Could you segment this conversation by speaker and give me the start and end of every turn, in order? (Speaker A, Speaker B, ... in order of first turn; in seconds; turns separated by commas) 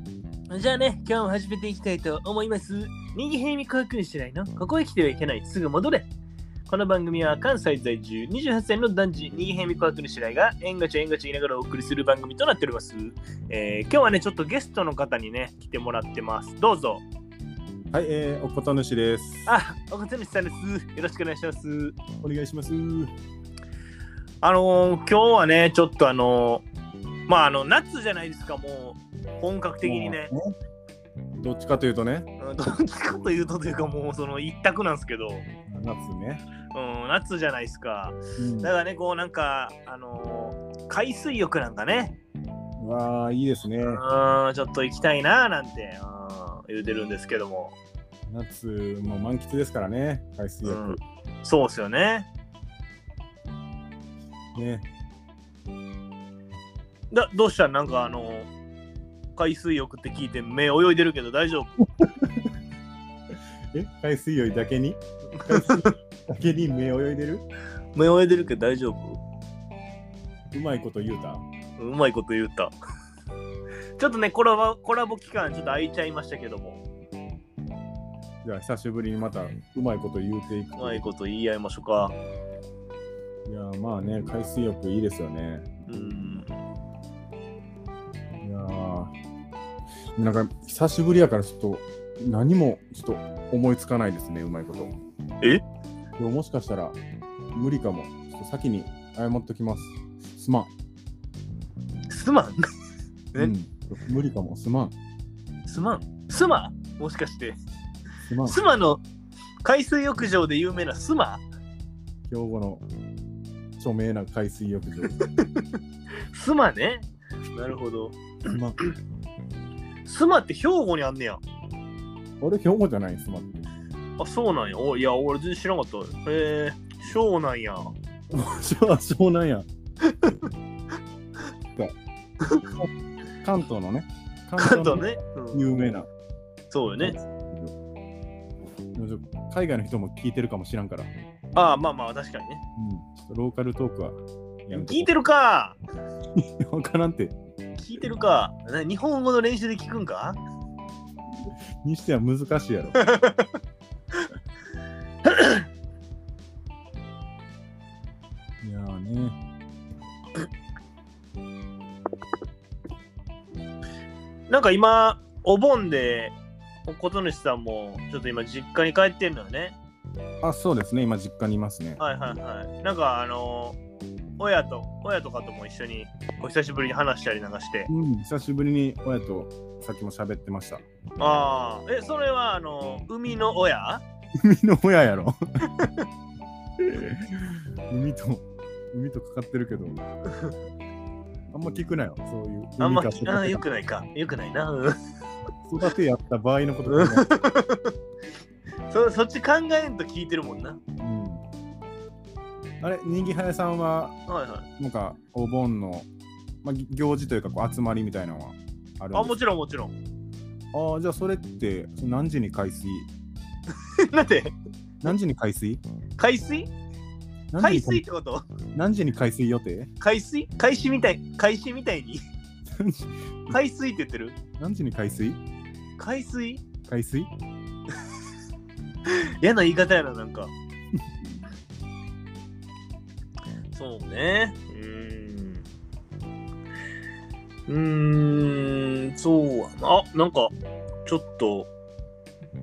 Speaker A: 0.5-6.1, Speaker A: 6.7-17.1, Speaker B: 17.9-19.5, Speaker A: 19.5-22.0, Speaker B: 22.2-23.1, Speaker A: 24.4-26.7, Speaker A: 27.3-30.3, Speaker B: 29.8-30.4, Speaker B: 31.4-32.3, Speaker A: 32.4-35.5, Speaker B: 35.7-36.4, Speaker A: 36.7-42.2, Speaker B: 38.4-38.7, Speaker B: 42.8-44.0, Speaker A: 43.8-47.8, Speaker B: 48.3-51.0, Speaker A: 50.6-52.3, Speaker B: 54.6-54.9, Speaker A: 57.1-58.5, Speaker A: 59.4-61.7, Speaker B: 62.0-62.5, Speaker B: 63.7-67.5, Speaker A: 65.4-65.9, Speaker A: 68.0-69.2, Speaker B: 70.5-71.4, Speaker A: 71.8-72.7, Speaker A: 74.0-76.8, Speaker B: 78.4-81.1, Speaker A: 80.8-82.2, Speaker B: 83.5-85.7, Speaker A: 85.9-86.5, Speaker B: 88.4-89.1, Speaker B: 90.2-94.9, Speaker B: 96.2-97.0, Speaker B: 97.5-100.7, Speaker A: 102.1-102.7, Speaker B: 103.4-104.9, Speaker A: 105.7-107.6, Speaker B: 108.3-108.6, Speaker A: 108.5-109.0, Speaker A: 109.6-111.4, Speaker B: 112.3-112.8, Speaker B: 113.8-115.2, Speaker A: 115.0-115.7, Speaker A: 116.3-118.6, Speaker B: 118.5-118.8, Speaker A: 120.0-121.4, Speaker B: 122.4-123.7, Speaker A: 124.2-128.0, Speaker B: 128.3-129.7, Speaker A: 130.0-130.4, Speaker A: 132.4-132.7, Speaker B: 133.4-136.1, Speaker A: 134.6-135.7, Speaker A: 136.7-137.2, Speaker B: 137.0-137.7, Speaker B: 139.0-141.1, Speaker A: 141.6-142.6, Speaker B: 142.8-145.1, Speaker A: 144.7-145.8, Speaker B: 146.4-147.3, Speaker A: 147.8-150.4, Speaker B: 151.8-153.0, Speaker A: 153.0-153.4, Speaker A: 155.2-155.6, Speaker B: 158.6-159.4, Speaker A: 164.5-169.8, Speaker B: 170.4-172.0, Speaker A: 172.0-173.8, Speaker A: 174.4-177.9, Speaker B: 177.9-180.8, Speaker A: 181.2-184.0, Speaker B: 184.4-185.3, Speaker A: 185.8-186.0, Speaker B: 186.8-190.0, Speaker B: 191.5-193.7, Speaker A: 192.8-195.0, Speaker B: 195.7-197.3, Speaker A: 196.9-197.9, Speaker A: 198.9-200.8, Speaker B: 201.0-201.4, Speaker B: 202.8-204.2, Speaker A: 204.3-204.7, Speaker B: 204.8-206.1, Speaker B: 206.6-209.4, Speaker A: 209.1-209.9, Speaker B: 210.7-213.1, Speaker A: 213.9-214.6, Speaker B: 215.0-215.8, Speaker A: 216.2-216.7, Speaker B: 217.5-218.0, Speaker A: 217.6-218.4, Speaker B: 218.8-219.9, Speaker A: 220.0-222.2, Speaker B: 222.8-223.6, Speaker A: 223.5-224.4, Speaker B: 224.6-225.4, Speaker A: 226.0-226.7, Speaker B: 226.9-227.3, Speaker A: 229.1-230.5, Speaker A: 233.7-235.7, Speaker A: 237.7-240.5, Speaker A: 241.1-241.7